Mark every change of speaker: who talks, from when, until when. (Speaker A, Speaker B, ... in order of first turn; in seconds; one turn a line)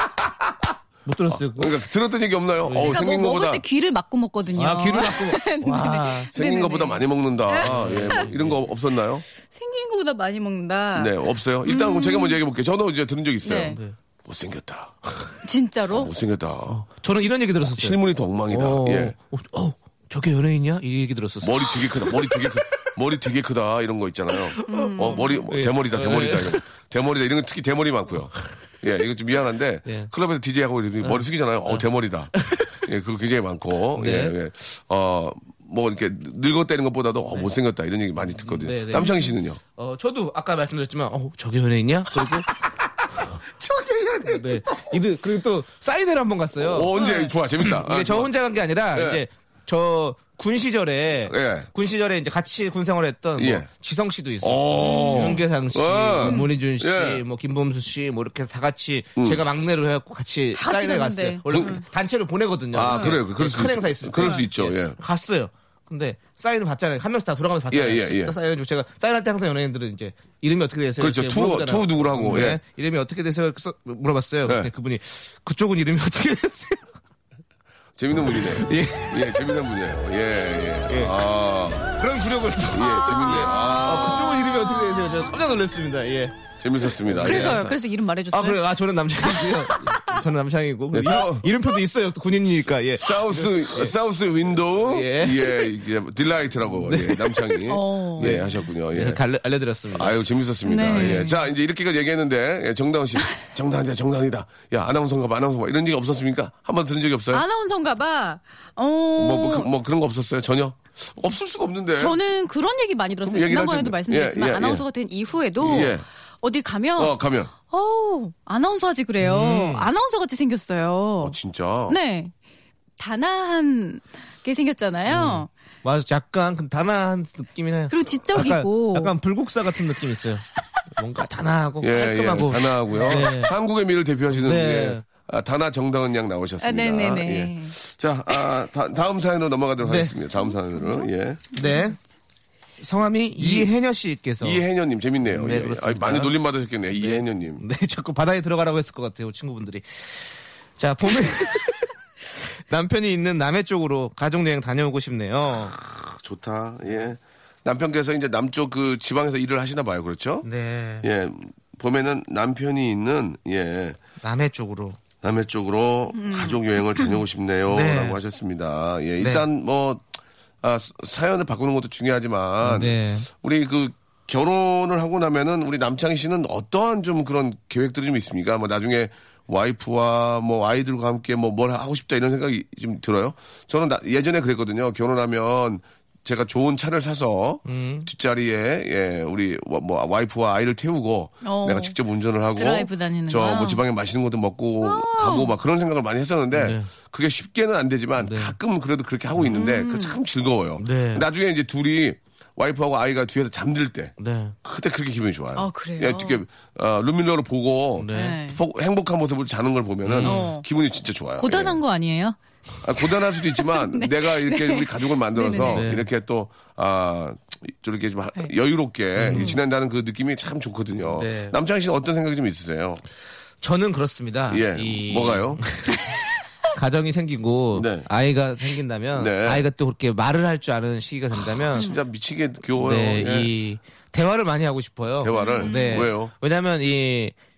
Speaker A: 1.1-1.8
Speaker B: 1.3-3.6
Speaker A: 2.6-3.0
Speaker C: 2.8-8.3
Speaker A: 4.5-6.3
Speaker B: 6.3-9.2
Speaker A: 7.6-8.6
Speaker C: 9.5-12.4
Speaker B: 10.9-15.4
Speaker C: 13.4-13.8
Speaker A: 13.6-13.9
Speaker C: 15.4-16.1
Speaker B: 15.9-16.9
Speaker A: 16.9-18.0
Speaker B: 17.6-19.1
Speaker A: 18.5-22.4
Speaker B: 21.4-39.6
Speaker A: 24.6-26.6
Speaker C: 24.7-25.5
Speaker A: 31.0-31.9
Speaker A: 32.4-32.7
Speaker A: 34.0-34.4
Speaker A: 38.3-39.1
Speaker C: 39.0-39.2
Speaker A: 39.7-42.5
Speaker B: 43.6-44.4
Speaker A: 44.2-46.9
Speaker B: 46.6-48.3
Speaker C: 46.9-47.3
Speaker A: 47.6-76.9
Speaker B: 48.9-49.2
Speaker B: 51.3-51.7
Speaker B: 53.4-53.7
Speaker B: 54.4-57.2
Speaker C: 54.8-55.4
Speaker C: 56.2-56.5
Speaker C: 60.5-61.8
Speaker B: 61.5-61.8
Speaker B: 62.7-65.0
Speaker C: 62.9-63.2
Speaker B: 67.7-68.3
Speaker B: 71.0-72.6
Speaker B: 74.4-74.7
Speaker B: 78.0-81.9
Speaker A: 78.2-79.3
Speaker A: 80.9-81.2
Speaker A: 82.0-86.4
Speaker B: 82.7-84.5
Speaker C: 84.7-85.3
Speaker B: 86.6-87.8
Speaker A: 87.0-87.7
Speaker C: 87.2-88.6
Speaker A: 88.3-93.9
Speaker C: 89.2-90.2
Speaker B: 90.9-91.5
Speaker B: 93.0-99.2
Speaker A: 94.8-95.6
Speaker A: 96.7-97.6
Speaker C: 97.7-98.3
Speaker A: 98.2-100.2
Speaker B: 99.9-107.4
Speaker C: 100.6-101.4
Speaker A: 100.8-101.3
Speaker C: 107.3-109.7
Speaker B: 109.2-112.2
Speaker C: 112.0-121.4
Speaker B: 113.2-114.8
Speaker B: 115.6-116.0
Speaker B: 117.0-117.5
Speaker A: 119.2-119.9
Speaker B: 121.2-122.0
Speaker C: 121.9-122.3
Speaker C: 123.0-125.5
Speaker A: 125.1-130.4
Speaker C: 127.9-129.1
Speaker A: 131.0-133.5
Speaker B: 131.8-141.5
Speaker A: 134.3-135.0
Speaker C: 136.6-137.8
Speaker A: 139.8-140.1
Speaker C: 140.8-141.9
Speaker A: 141.5-142.0
Speaker A: 142.8-144.6
Speaker B: 143.4-143.7
Speaker B: 144.4-147.6
Speaker A: 145.2-146.4
Speaker A: 146.9-151.9
Speaker A: 152.7-155.8
Speaker B: 155.9-160.5
Speaker A: 160.4-161.1
Speaker B: 161.0-164.0
Speaker A: 164.2-165.0
Speaker B: 165.2-170.0
Speaker C: 166.1-167.2
Speaker A: 167.7-168.2
Speaker A: 169.2-169.4
Speaker B: 170.6-211.8
Speaker A: 172.6-173.3
Speaker A: 187.6-188.1
Speaker C: 191.4-192.0
Speaker C: 192.6-193.8
Speaker C: 194.8-195.5
Speaker A: 196.5-196.9
Speaker A: 198.2-198.6
Speaker C: 199.5-200.2
Speaker A: 200.8-201.2
Speaker A: 204.2-204.5
Speaker C: 205.5-206.4
Speaker A: 208.0-208.4
Speaker C: 208.1-208.6
Speaker A: 210.0-210.5
Speaker C: 210.2-210.7
Speaker C: 211.4-212.4
Speaker B: 212.8-223.0
Speaker C: 213.6-215.9
Speaker A: 215.7-216.1
Speaker A: 219.2-219.5
Speaker C: 219.3-219.6
Speaker A: 221.1-221.6
Speaker A: 223.6-226.0
Speaker B: 224.5-225.6
Speaker A: 226.7-231.9
Speaker B: 227.7-228.1
Speaker B: 229.2-229.7
Speaker B: 231.7-233.5
Speaker A: 232.8-237.3
Speaker B: 235.2-236.3
Speaker C: 235.3-236.1